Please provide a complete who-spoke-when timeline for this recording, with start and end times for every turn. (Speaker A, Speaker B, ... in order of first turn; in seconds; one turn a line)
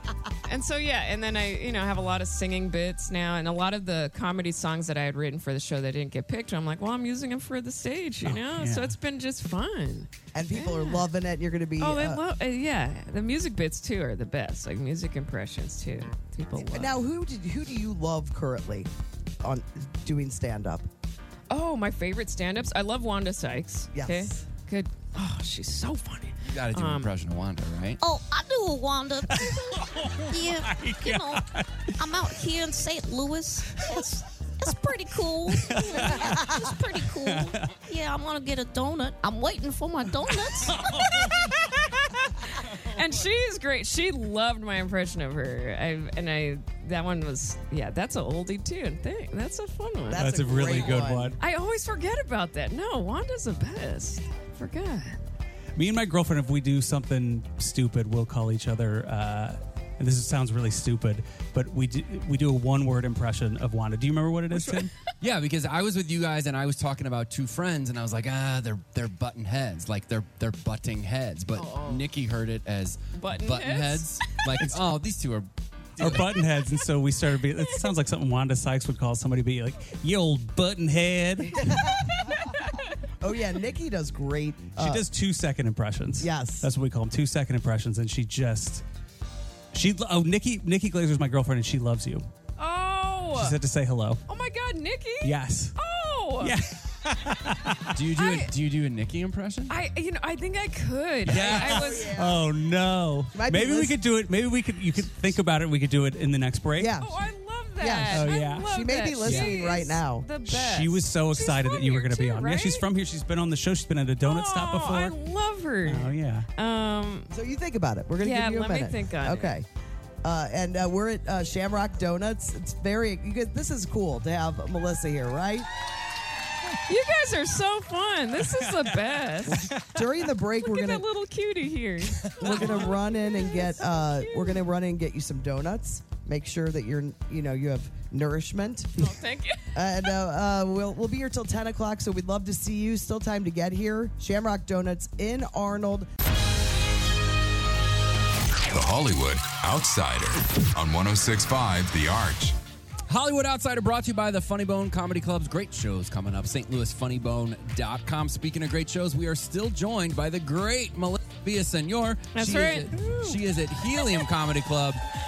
Speaker A: 0.5-11.1
Speaker B: 8.2-9.0
Speaker C: 10.3-12.2
Speaker A: 11.8-17.0
Speaker C: 16.6-18.9
Speaker C: 19.4-20.9
Speaker A: 21.5-27.1
Speaker C: 23.9-24.5
Speaker D: 26.4-28.0
Speaker E: 28.0-29.6
Speaker B: 29.3-31.6
Speaker E: 30.3-31.4
Speaker E: 32.0-34.0
Speaker E: 34.6-40.7
Speaker B: 35.5-37.7
Speaker B: 40.7-41.5
Speaker A: 41.5-41.8
Speaker A: 42.9-55.2
Speaker C: 50.1-51.4
Speaker B: 50.2-51.4
Speaker B: 55.8-64.9
Speaker A: 64.5-64.9
Speaker D: 65.2-76.3
Speaker A: 71.5-72.1
Speaker A: 73.2-74.3
Speaker B: 76.0-81.7
Speaker C: 81.5-82.3
Speaker C: 83.2-85.0
Speaker B: 84.8-88.8
Speaker C: 86.2-86.7
Speaker B: 89.7-92.3
Speaker A: 92.6-93.6
Speaker B: 93.3-94.2
Speaker A: 94.3-96.6
Speaker B: 95.2-95.8
Speaker B: 96.4-97.9
Speaker D: 97.9-99.8
Speaker A: 98.1-98.5
Speaker A: 99.7-102.2
Speaker B: 101.2-107.0
Speaker C: 101.4-102.5
Speaker C: 103.3-104.0
Speaker C: 106.8-107.2
Speaker A: 107.0-112.9
Speaker C: 107.8-110.3
Speaker B: 108.1-108.7
Speaker B: 109.2-109.5
Speaker B: 110.5-115.2
Speaker A: 114.2-117.3
Speaker B: 115.8-116.5
Speaker C: 117.3-119.7
Speaker A: 118.2-119.6
Speaker C: 120.2-125.7
Speaker A: 126.9-129.7
Speaker B: 128.4-130.0
Speaker C: 129.8-131.1
Speaker A: 130.6-134.7
Speaker B: 132.2-132.9
Speaker C: 132.4-139.2
Speaker A: 139.0-139.7
Speaker C: 139.7-146.1
Speaker F: 148.7-152.6
Speaker D: 153.1-165.0
Speaker A: 162.3-164.3